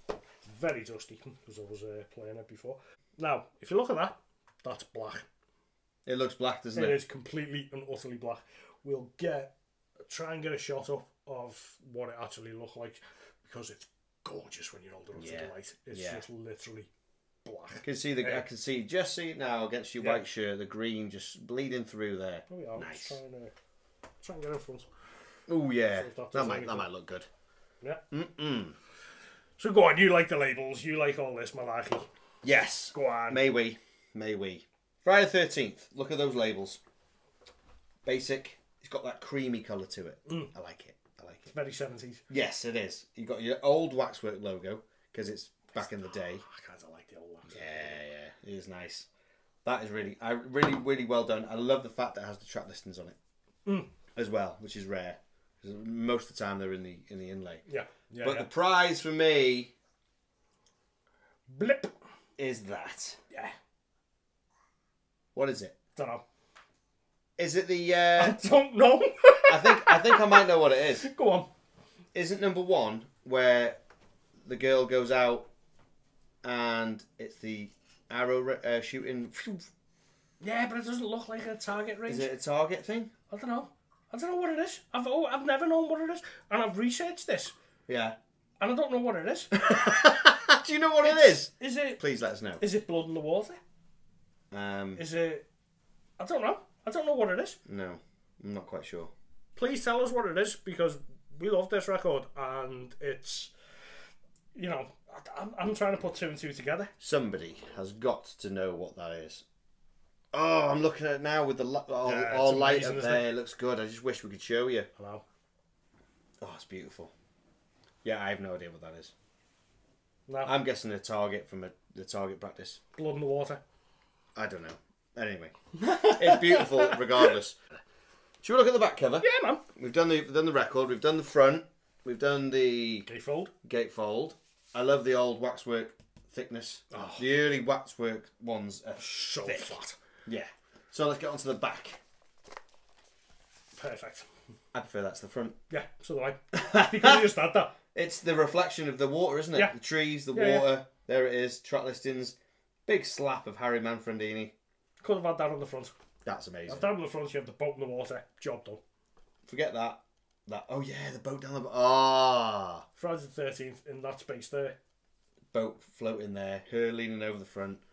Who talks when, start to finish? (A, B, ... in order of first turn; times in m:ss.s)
0:00.4-0:05.3 A
0:06.1-0:07.0 B
0:06.8-0:09.5 A
0:10.1-0:16.9 A
0:15.2-0:16.2 B
0:17.4-0:18.5 A
0:17.8-0:23.2 B
0:20.0-0:20.2 A
0:22.5-0:23.5 A
0:24.2-0:24.9 A
0:25.5-0:27.3 B
0:25.9-0:26.9 A
0:28.1-0:28.8 B
0:29.6-0:32.1 A
0:32.4-0:36.8 B
0:32.9-0:33.5 A
0:38.0-0:41.5 B
0:41.5-0:42.2 A
0:42.3-0:46.4 B
0:45.8-0:48.0 A
0:47.5-0:49.1 B
0:49.6-0:53.2 B
0:53.7-0:53.9 A
0:54.2-0:57.6 B
0:57.7-0:58.5 A
0:58.2-0:59.7 B
1:01.5-1:01.9 A
1:02.4-1:03.2 B
1:05.4-1:05.8 B
1:06.0-1:06.2 A
1:07.4-1:08.4 B
1:08.2-1:11.5 A
1:09.5-1:11.1 B
1:12.1-1:13.8 B
1:14.4-1:15.5 B
1:16.4-1:19.7 B
1:20.4-1:22.3 A
1:22.1-1:23.1 B
1:23.3-1:27.6 A
1:27.9-1:28.2 B
1:28.6-1:29.6 A
1:29.5-1:32.6 B
1:31.0-1:32.0 A
1:32.6-1:33.6 A
1:34.5-1:35.0 B
1:35.0-1:35.5 A
1:36.2-1:37.6 A
1:37.7-1:39.1 B
1:39.6-1:43.5 A
1:44.6-1:46.9 A
1:47.0-1:49.4 B
1:50.3-1:54.9 B
1:52.0-1:53.3 A
1:55.0-1:55.2 A
1:56.4-1:57.1 B
1:58.0-1:59.1 B
2:00.3-2:00.6 A
2:00.4-2:02.8 B
2:03.0-2:03.6 A
2:04.4-2:07.6 B
2:05.8-2:07.3 A
2:08.4-2:13.1 B
2:09.2-2:09.6 A
2:13.1-2:13.5 A
2:13.6-2:22.0 B
2:16.9-2:17.3 A
2:19.0-2:20.0 A
2:23.8-2:24.3 A
2:24.7-2:25.6 B
2:25.7-2:27.8 A
2:26.5-2:27.3 B
2:27.9-2:32.4 B
2:30.3-2:30.7 A
2:32.9-2:34.5 B
2:35.0-2:35.9 A
2:36.2-2:36.9 B
2:36.7-2:38.8 A
2:39.5-2:42.8 B
2:43.0-2:44.8 A
2:45.5-2:47.8 B